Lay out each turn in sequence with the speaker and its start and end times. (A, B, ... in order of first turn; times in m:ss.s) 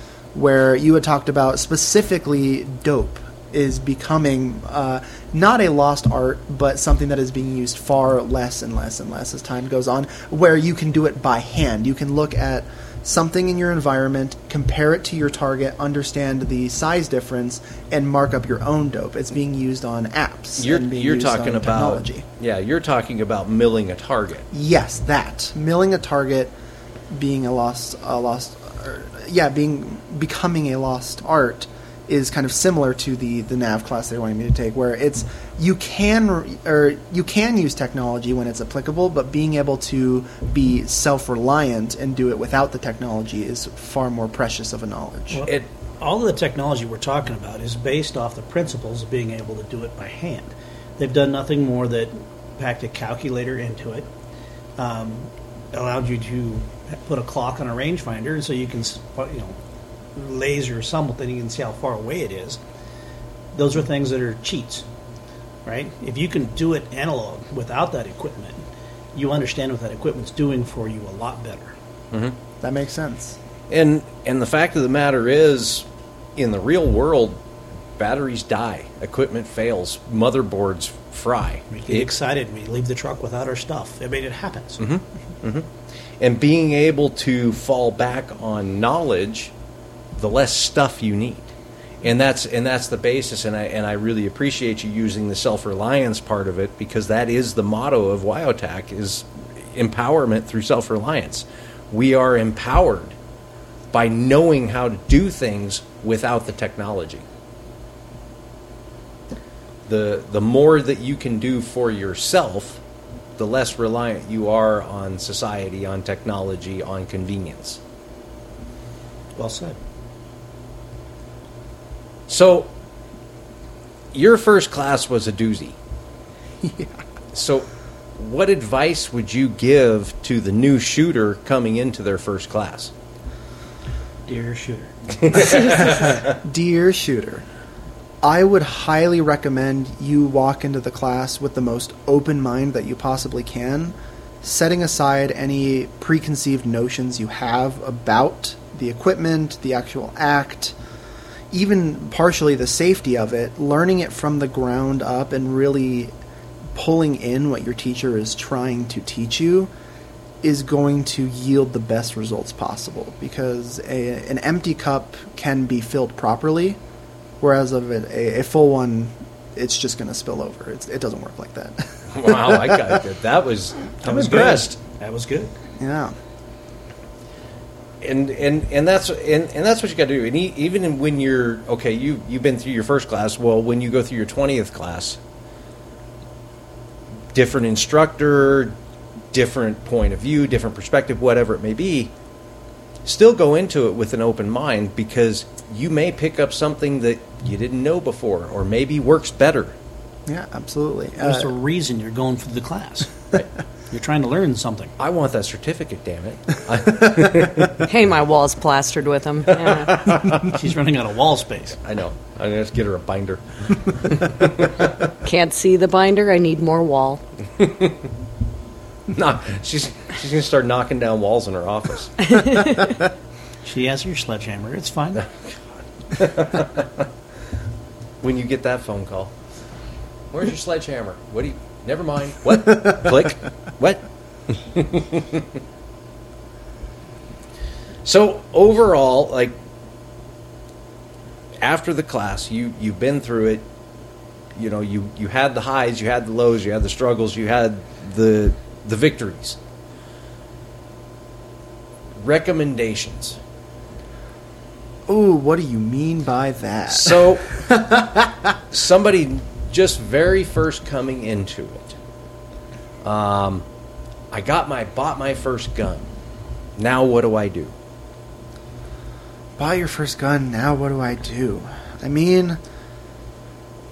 0:00.3-0:22.2 A
0:20.6-0:24.4 B
0:24.5-0:26.5 A
0:27.1-0:45.4 A
0:45.3-0:54.1 C
0:54.8-0:59.6 C
1:00.1-1:02.6 C
1:03.5-1:04.8 C
1:05.6-1:08.6 C
1:09.1-1:11.7 C
1:12.6-1:13.4 A
1:13.7-1:15.8 B
1:16.4-1:17.4 B
1:18.0-1:22.1 B
1:21.7-1:24.8 C
1:24.8-1:25.7 B
1:26.2-1:29.5 B
1:30.2-1:31.5 B
1:32.0-1:43.1 B
1:43.9-1:47.2 B
1:49.9-1:52.8 B
1:53.4-1:57.8 B
1:59.4-1:59.8 C
2:02.3-2:02.7 B
2:04.1-2:05.8 B
2:06.6-2:07.0 A
2:07.3-2:12.9 B
2:14.3-2:14.9 C
2:15.2-2:16.3 B
2:15.5-2:17.4 A
2:18.2-2:30.8 A
2:31.5-2:36.1 A
2:36.7-2:39.7 A
2:40.4-2:46.8 A
2:47.4-2:53.0 A
2:52.1-2:54.8 B
2:54.0-2:55.5 C
2:55.8-2:56.1 A
2:58.0-3:05.2 B
3:07.3-3:08.8 B
3:09.3-3:12.1 B
3:13.0-3:19.7 B
3:20.3-3:21.5 A
3:21.2-3:23.2 C
3:23.9-3:24.9 C
3:25.0-3:27.9 B
3:27.8-3:30.1 D
3:29.7-3:30.5 B
3:30.3-3:31.8 C
3:31.8-3:35.1 B
3:35.2-3:37.2 D
3:37.6-3:38.0 B
3:39.1-3:42.3 B
3:42.3-3:43.0 D
3:43.6-3:45.2 C
3:46.1-3:47.0 B
3:48.2-3:49.3 B
3:50.3-3:55.4 B
3:58.0-3:59.6 B
4:01.6-4:03.6 B
4:04.5-4:09.6 B
4:12.2-4:13.4 B
4:15.1-4:18.6 A
4:16.9-4:17.6 B
4:18.7-4:22.0 B
4:23.0-4:23.6 B
4:24.3-4:26.1 B
4:26.8-4:27.7 B
4:29.6-4:32.6 A